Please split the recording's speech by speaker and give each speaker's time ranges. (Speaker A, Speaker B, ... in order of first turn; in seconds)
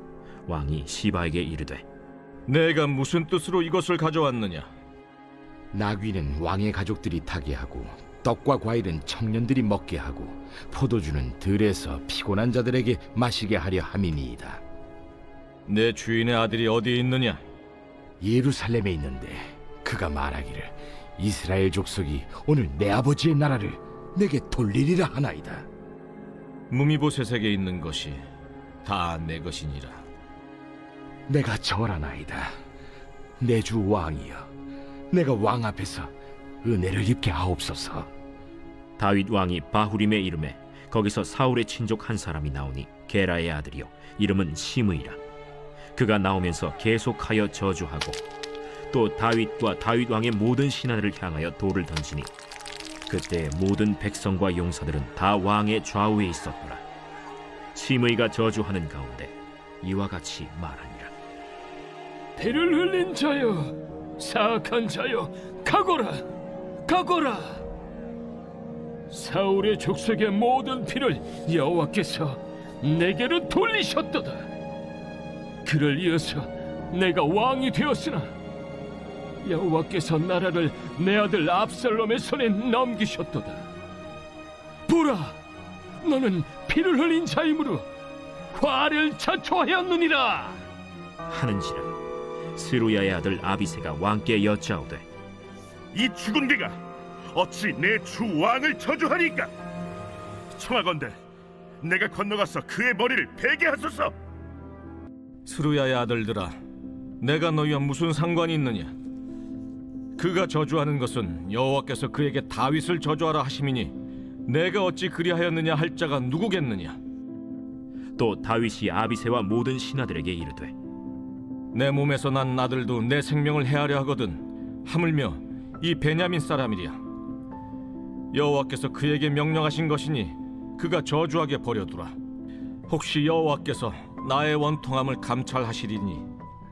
Speaker A: 0.5-1.9, 39.0-45.2, 46.0-48.2, 48.9-52.3, 53.1-56.8, 57.7-61.1, 91.3-91.9, 92.6-95.0, 118.2-120.7
Speaker B: 2.5-4.7, 15.7-17.4, 26.7-28.2, 28.9-30.0, 105.5-106.6, 107.2-108.9, 110.2-117.0, 121.7-127.0, 128.3-132.2, 132.9-136.3
Speaker C: 5.7-14.6, 18.2-25.7, 31.3-32.6, 33.4-34.5, 35.1-38.1
Speaker D: 62.4-66.2, 66.9-67.6, 69.1-74.5, 75.6-78.3, 79.4-83.7, 84.9-85.4, 86.0-87.9, 88.5-90.6
Speaker E: 96.1-96.7, 97.7-99.4, 100.7-100.9, 102.3-103.9